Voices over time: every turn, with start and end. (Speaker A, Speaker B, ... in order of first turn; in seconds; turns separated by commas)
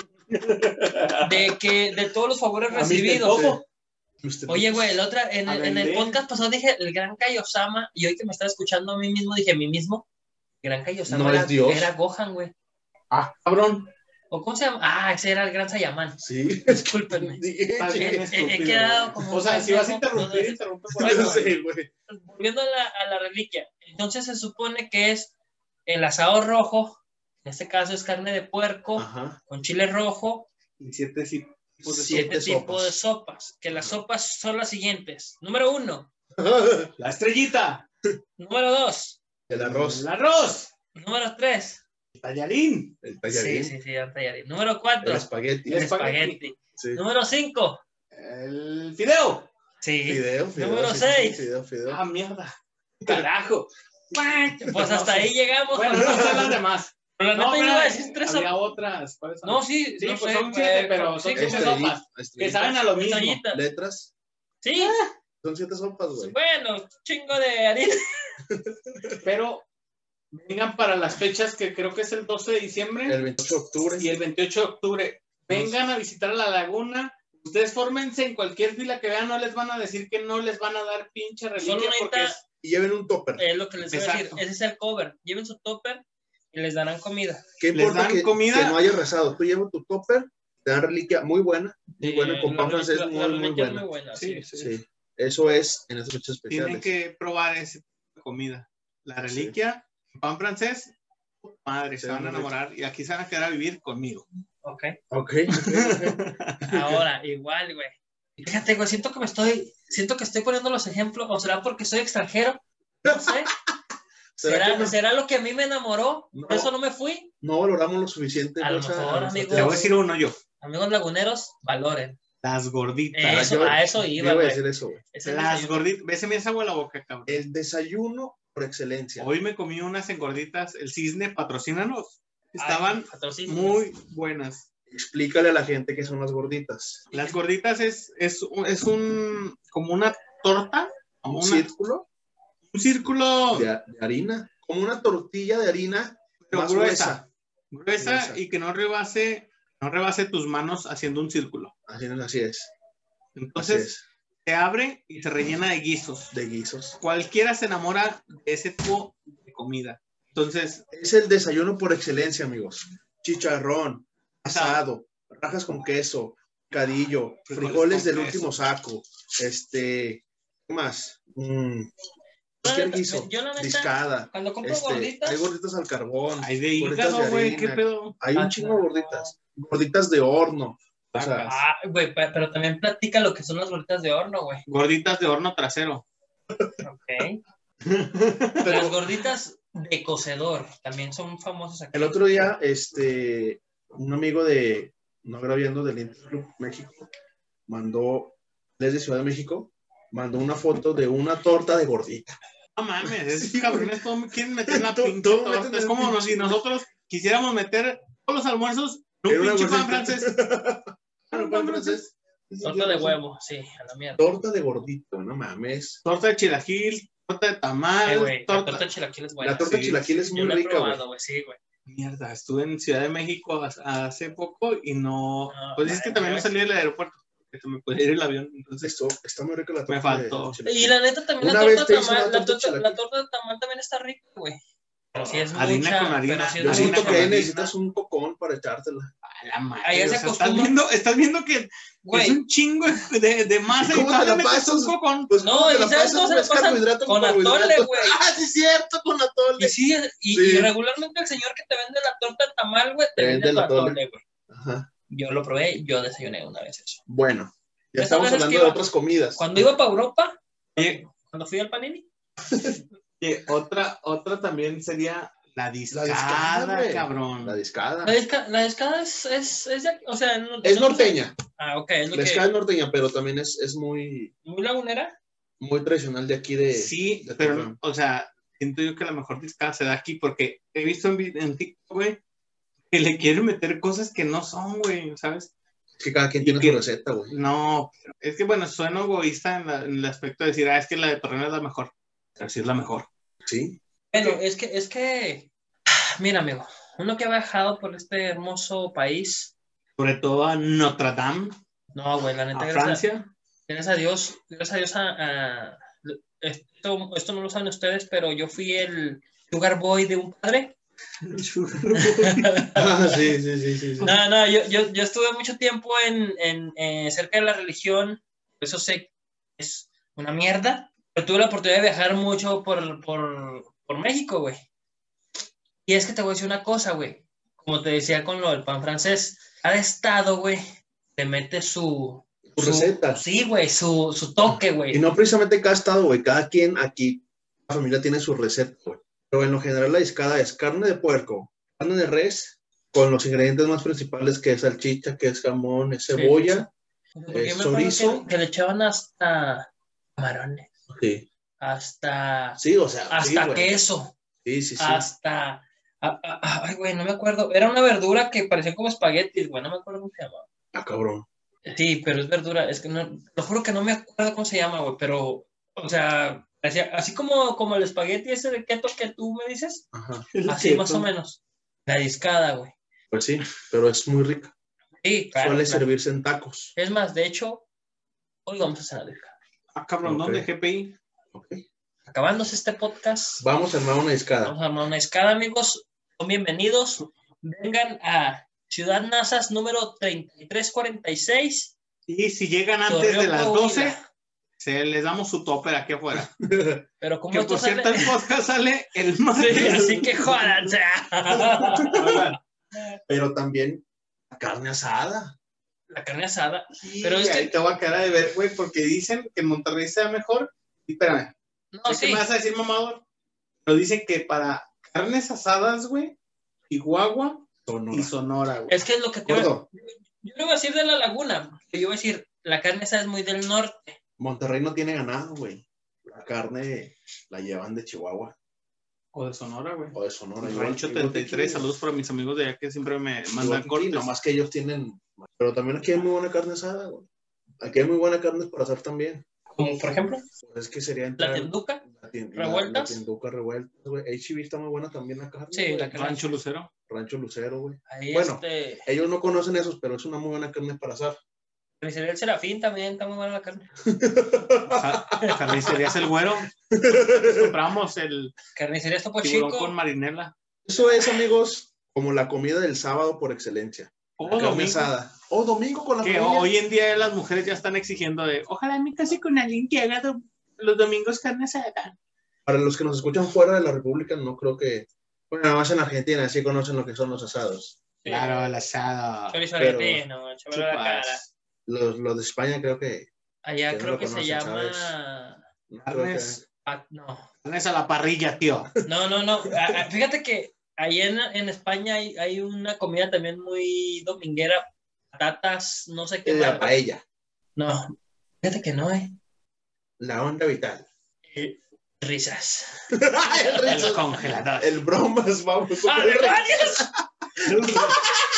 Speaker A: 0.3-1.6, Speaker B: 1.2-3.6, Speaker A: 2.7-3.6, Speaker C: 2.8-3.6, Speaker C: 4.2-5.0, Speaker B: 4.5-10.1, Speaker A: 5.5-6.2, Speaker B: 10.6-12.5, Speaker C: 11.1-11.9, Speaker A: 13.1-13.9, Speaker B: 14.3-17.4, Speaker C: 16.2-18.2, Speaker A: 17.8-21.6, Speaker B: 18.0-21.6, Speaker C: 21.0-21.9, Speaker B: 22.1-25.3, Speaker B: 25.9-30.5, Speaker C: 29.0-29.4, Speaker A: 30.8-32.3, Speaker C: 31.8-33.0, Speaker B: 32.0-36.1, Speaker C: 33.7-34.0, Speaker C: 36.4-36.9, Speaker A: 37.0-37.9, Speaker B: 38.4-39.2, Speaker C: 39.5-40.1, Speaker A: 39.5-40.7, Speaker B: 40.9-41.8, Speaker A: 42.1-43.0, Speaker C: 43.0-43.7, Speaker B: 43.3-47.8, Speaker C: 45.0-45.9, Speaker A: 45.7-46.4, Speaker C: 46.8-47.0, Speaker A: 48.1-49.5, Speaker B: 49.8-51.5, Speaker C: 50.1-52.0, Speaker A: 51.9-63.4, Speaker B: 54.6-56.5, Speaker C: 56.0-56.5, Speaker B: 57.2-58.5, Speaker B: 59.4-61.8, Speaker C: 61.4-62.8, Speaker B: 62.9-63.6, Speaker C: 63.5-64.1, Speaker B: 64.6-65.0, Speaker A: 64.8-65.1, Speaker C: 65.4-66.4, Speaker B: 66.2-68.2, Speaker C: 68.5-69.2, Speaker A: 69.2-69.7, Speaker A: 70.3-73.2, Speaker C: 73.1-74.1, Speaker A: 74.0-82.5, Speaker C: 75.5-75.8, Speaker B: 81.6-82.4, Speaker C: 82.6-83.4, Speaker B: 83.4-87.4, Speaker A: 83.9-84.4, Speaker C: 87.6-93.9, Speaker A: 87.7-88.8, Speaker B: 92.0-94.5, Speaker A: 94.2-94.7, Speaker C: 94.6-96.9, Speaker A: 96.5-104.2, Speaker C: 99.3-99.6, Speaker C: 102.0-102.5, Speaker B: 104.6-105.0, Speaker C: 105.1-107.0, Speaker A: 105.5-106.8, Speaker B: 106.7-113.5, Speaker C: 113.0-113.4, Speaker C: 114.4-115.0, Speaker B: 114.4-117.3, Speaker C: 116.3-116.7, Speaker C: 117.4-119.8, Speaker B: 118.6-119.9, Speaker A: 119.5-120.4, Speaker B: 120.6-122.2, Speaker A: 122.4-123.8, Speaker B: 123.2-125.8, Speaker C: 123.3-125.0, Speaker A: 125.2-127.4, Speaker C: 127.3-129.3, Speaker A: 129.2-134.7, Speaker B: 132.6-133.9, Speaker C: 134.9-137.1, Speaker A: 137.1-141.7, Speaker C: 141.3-142.1, Speaker A: 142.7-143.7, Speaker C: 143.5-147.2, Speaker A: 146.4-151.7, Speaker C: 148.0-148.4, Speaker C: 151.9-152.7, Speaker A: 153.4-153.9, Speaker C: 153.6-154.1, Speaker A: 154.4-156.3, Speaker C: 156.3-157.0, Speaker A: 157.0-160.8, Speaker C: 160.9-171.9, Speaker A: 164.5-164.8, Speaker A: 167.5-168.6, Speaker C: 172.6-181.5, Speaker B: 172.6-175.4, Speaker A: 176.4-178.2, Speaker B: 178.3-179.3, Speaker A: 181.1-181.7, Speaker B: 181.4-184.6, Speaker A: 184.7-186.1, Speaker B: 186.8-187.4, Speaker A: 188.2-188.6, Speaker C: 188.6-189.0, Speaker B: 188.7-192.2, Speaker C: 191.9-197.1, Speaker C: 197.7-202.4, Speaker A: 202.8-210.3, Speaker C: 203.0-203.9, Speaker C: 204.7-206.6, Speaker C: 209.3-213.2, Speaker A: 211.3-212.1, Speaker B: 212.6-214.2, Speaker C: 214.2-216.0, Speaker A: 216.1-218.9, Speaker B: 218.1-221.6, Speaker C: 219.4-221.0, Speaker A: 219.6-220.1, Speaker A: 221.9-229.0, Speaker B: 225.5-226.5, Speaker C: 228.8-233.0, Speaker A: 229.9-230.6, Speaker B: 230.7-234.6, Speaker B: 235.2-237.3, Speaker C: 235.2-235.4, Speaker A: 235.5-237.7, Speaker C: 236.6-239.1, Speaker A: 239.2-245.3, Speaker B: 239.8-240.7, Speaker B: 242.1-242.4, Speaker C: 243.7-249.8, Speaker B: 245.4-248.2, Speaker B: 249.6-254.2, Speaker C: 250.3-250.7, Speaker C: 253.2-254.0, Speaker C: 254.5-254.9, Speaker B: 255.1-257.0, Speaker C: 257.1-259.6, Speaker B: 258.0-262.1, Speaker A: 260.8-261.0, Speaker A: 263.2-267.6, Speaker C: 265.9-268.2, Speaker B: 268.0-272.5, Speaker C: 270.6-271.4, Speaker C: 272.1-274.3, Speaker B: 274.4-275.1, Speaker C: 275.6-277.8, Speaker A: 276.7-282.2, Speaker A: 282.9-285.5, Speaker C: 286.0-287.3, Speaker A: 286.4-293.1, Speaker C: 293.4-293.8, Speaker B: 294.1-299.5, Speaker A: 300.0-301.6, Speaker B: 301.9-303.0, Speaker A: 302.5-303.3, Speaker B: 303.7-310.8, Speaker A: 311.2-312.7, Speaker B: 311.9-313.2, Speaker C: 312.8-314.2, Speaker B: 314.0-324.6, Speaker B: 325.9-330.6, Speaker B: 331.1-335.0, Speaker C: 332.5-333.2, Speaker C: 334.5-346.7, Speaker B: 346.1-346.7, Speaker B: 347.2-350.7, Speaker C: 347.3-348.3, Speaker C: 350.9-351.3, Speaker B: 351.6-354.1, Speaker C: 352.6-353.8, Speaker C: 354.4-355.1, Speaker B: 354.8-360.4, Speaker C: 360.7-361.3, Speaker B: 361.7-369.9, Speaker C: 369.9-370.3, Speaker A: 370.3-371.1, Speaker B: 370.5-372.7, Speaker C: 373.1-374.5, Speaker B: 375.0-375.9, Speaker C: 375.4-376.7, Speaker B: 376.8-377.7, Speaker B: 378.5-379.3, Speaker A: 379.8-381.0, Speaker C: 380.0-380.5, Speaker C: 381.3-381.6, Speaker B: 382.1-383.5, Speaker C: 383.4-384.6, Speaker B: 384.4-391.7, Speaker A: 392.1-394.0, Speaker B: 392.9-394.0, Speaker A: 394.6-396.3, Speaker C: 396.1-396.9, Speaker B: 397.0-398.1, Speaker A: 397.3-399.9, Speaker B: 399.4-402.2, Speaker C: 399.5-400.5, Speaker C: 401.3-402.2, Speaker A: 401.9-402.4, Speaker C: 403.1-405.4, Speaker B: 405.9-407.5, Speaker A: 406.8-411.3, Speaker B: 411.7-412.2, Speaker A: 411.9-413.0, Speaker A: 413.6-416.1, Speaker A: 416.7-418.8, Speaker C: 417.7-418.1, Speaker B: 418.7-424.0, Speaker C: 419.3-419.7, Speaker C: 424.2-428.3, Speaker A: 429.1-434.1, Speaker C: 429.9-431.7, Speaker C: 433.4-437.1, Speaker C: 437.6-439.2, Speaker B: 439.5-440.2, Speaker C: 440.4-445.9, Speaker B: 441.2-441.8, Speaker B: 442.4-443.0, Speaker B: 445.5-446.2, Speaker A: 445.9-446.7, Speaker C: 446.9-451.2, Speaker B: 447.9-448.9, Speaker B: 451.8-453.7, Speaker C: 453.9-455.9, Speaker A: 454.7-458.3, Speaker C: 456.7-457.6, Speaker B: 458.6-459.7, Speaker A: 459.2-460.3, Speaker C: 460.7-466.5, Speaker A: 464.2-464.9, Speaker A: 466.0-471.9, Speaker C: 472.5-477.8, Speaker B: 478.0-478.6, Speaker A: 478.1-479.4, Speaker B: 479.3-481.2, Speaker C: 479.6-480.0, Speaker A: 480.5-481.3, Speaker C: 481.7-483.1, Speaker B: 483.4-485.4, Speaker C: 483.7-484.9, Speaker C: 485.7-486.4, Speaker A: 485.9-486.4, Speaker B: 486.7-487.3, Speaker A: 487.4-488.7, Speaker B: 488.9-496.8, Speaker C: 489.5-489.8, Speaker C: 496.2-497.0, Speaker B: 497.6-499.1, Speaker C: 500.0-500.9, Speaker B: 501.3-504.0, Speaker C: 502.9-508.0, Speaker A: 503.6-504.8, Speaker B: 505.8-506.9, Speaker A: 507.4-508.0